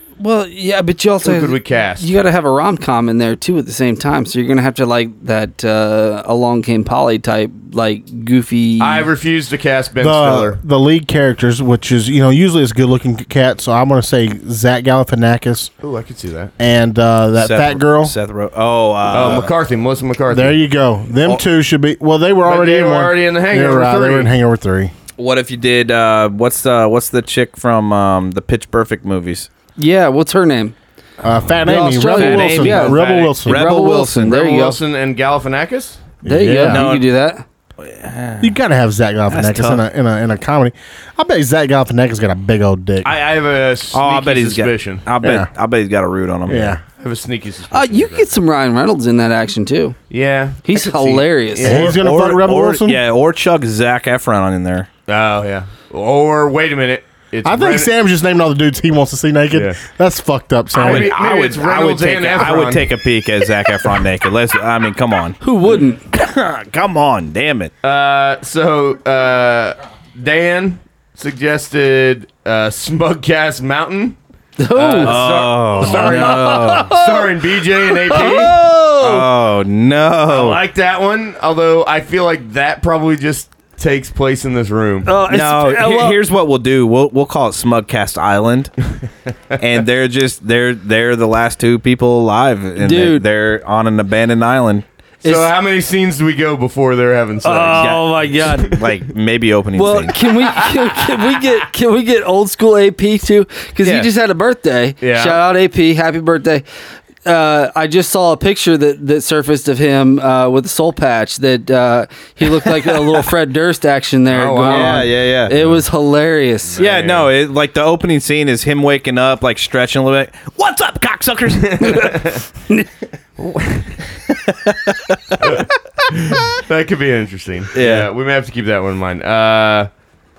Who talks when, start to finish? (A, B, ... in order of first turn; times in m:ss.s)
0:00.2-0:09.1 A
0:01.2-0:02.1 B
0:08.8-0:10.6 B
0:10.0-0:15.7 C
0:15.8-0:16.5 B
0:16.6-0:18.1 C
0:17.4-0:19.5 D
0:19.1-0:20.6 B
0:19.1-0:19.5 C
0:20.3-0:24.9 C
0:22.4-0:24.3 B
0:25.2-0:29.5 D
0:29.8-0:30.7 A
0:31.2-0:33.6 C
0:31.6-0:34.8 A
0:32.1-0:34.4 D
0:32.8-0:33.4 B
0:34.3-0:36.1 B
0:36.2-0:36.8 C
0:36.2-0:37.4 A
0:36.7-0:37.1 D
0:37.8-0:38.6 D
0:38.4-0:43.1 C
0:39.3-0:39.8 D
0:43.0-0:45.1 B
0:43.9-0:46.8 D
0:45.2-0:45.5 C
0:46.5-0:46.8 C
0:46.9-0:48.4 B
0:47.7-0:50.0 A
0:50.1-0:52.0 B
0:50.6-0:51.8 A
0:51.6-0:53.0 C
0:51.6-0:54.9 D
0:55.1-0:57.9 B
0:57.4-1:01.1 C
0:59.5-0:59.8 B
1:00.7-1:02.9 B
1:00.7-1:07.7 D
1:05.4-1:06.0 A
1:07.8-1:14.2 B
1:14.6-1:15.2 A
1:14.7-1:19.3 B
1:15.0-1:17.0 D
1:15.8-1:19.0 A
1:18.1-1:20.6 D
1:20.3-1:25.2 B
1:25.0-1:26.2 A
1:25.2-1:28.9 D
1:29.6-1:34.8 D
1:32.8-1:33.2 A
1:35.2-1:35.5 A
1:35.2-1:38.9 B
1:37.4-1:38.8 A
1:37.7-1:40.2 D
1:39.8-1:46.6 A
1:40.6-1:41.5 B
1:43.8-1:44.1 D
1:45.0-1:45.4 B
1:47.2-1:56.8 A
1:52.6-1:53.2 D
1:54.3-1:55.8 B
1:54.6-1:55.6 D
1:56.7-1:57.3 B
1:56.8-2:02.2 D
2:01.6-2:02.4 B
2:03.4-2:04.0 B
2:04.3-2:05.7 D
2:05.4-2:09.9 B
2:07.7-2:08.1 D